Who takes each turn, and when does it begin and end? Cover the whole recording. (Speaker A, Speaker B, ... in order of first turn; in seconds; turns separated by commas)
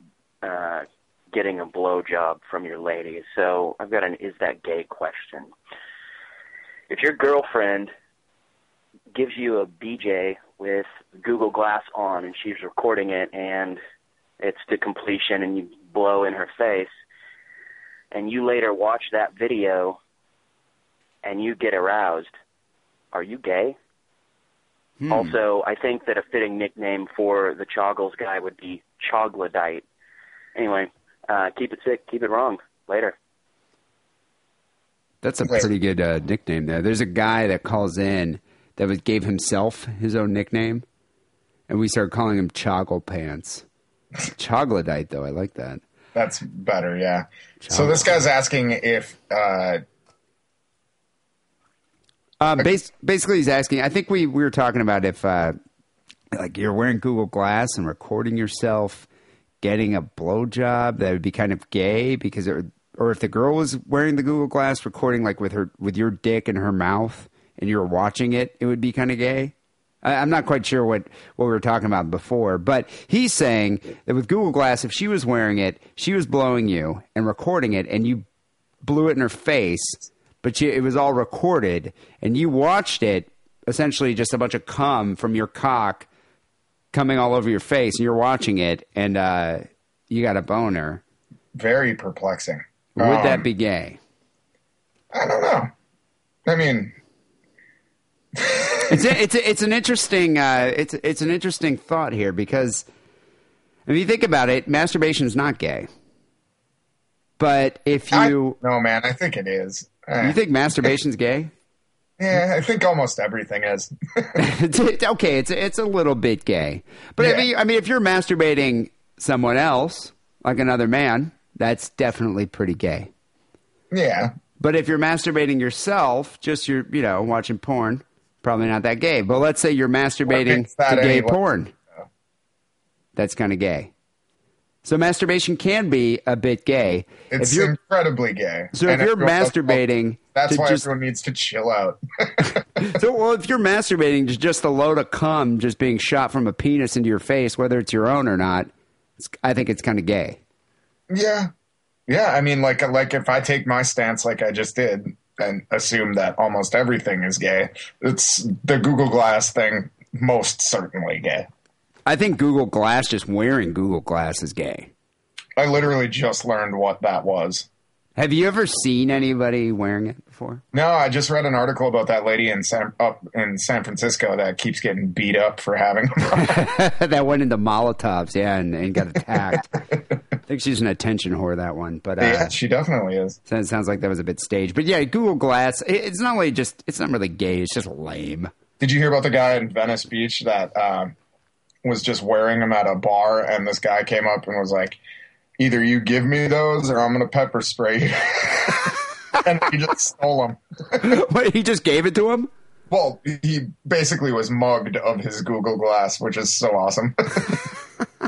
Speaker A: 0.4-5.5, Speaker A: 6.9-7.9, Speaker A: 9.1-13.8, Speaker A: 14.4-16.9, Speaker A: 18.1-20.0, Speaker A: 21.2-22.3, Speaker A: 23.1-23.8, Speaker B: 25.0-25.4, Speaker A: 25.1-29.8, Speaker A: 30.5-33.1, Speaker B: 35.2-40.8, Speaker B: 41.7-43.6, Speaker B: 44.4-45.8, Speaker C: 46.1-49.8, Speaker B: 47.6-48.2, Speaker B: 52.4-55.5, Speaker B: 56.3-59.1, Speaker B: 59.6-78.2, Speaker B: 78.8-86.1, Speaker B: 86.9-91.0, Speaker C: 91.5-93.5, Speaker B: 93.0-94.0, Speaker C: 95.1-95.7, Speaker C: 96.5-96.9, Speaker C: 98.3-99.0, Speaker B: 98.9-102.8, Speaker B: 103.8-105.9, Speaker B: 107.4-108.6, Speaker C: 108.1-110.4, Speaker B: 110.2-111.5, Speaker C: 112.2-114.3, Speaker B: 114.4-123.1, Speaker C: 117.2-117.5, Speaker C: 123.9-124.3, Speaker B: 124.6-131.7, Speaker C: 130.3-131.4, Speaker B: 133.2-133.9, Speaker B: 134.8-137.7, Speaker C: 137.3-139.8, Speaker B: 138.7-140.9, Speaker C: 140.3-142.8, Speaker B: 142.8-150.4, Speaker C: 151.1-151.5, Speaker C: 152.1-161.5, Speaker B: 162.1-164.9, Speaker C: 165.6-167.7, Speaker B: 168.2-170.6, Speaker C: 170.7-176.6, Speaker B: 176.3-179.8, Speaker B: 180.5-182.5, Speaker C: 182.2-183.4, Speaker B: 183.5-188.5, Speaker C: 188.8-191.1, Speaker C: 191.8-195.0, Speaker C: 195.6-201.1, Speaker B: 201.0-202.5, Speaker C: 202.9-207.6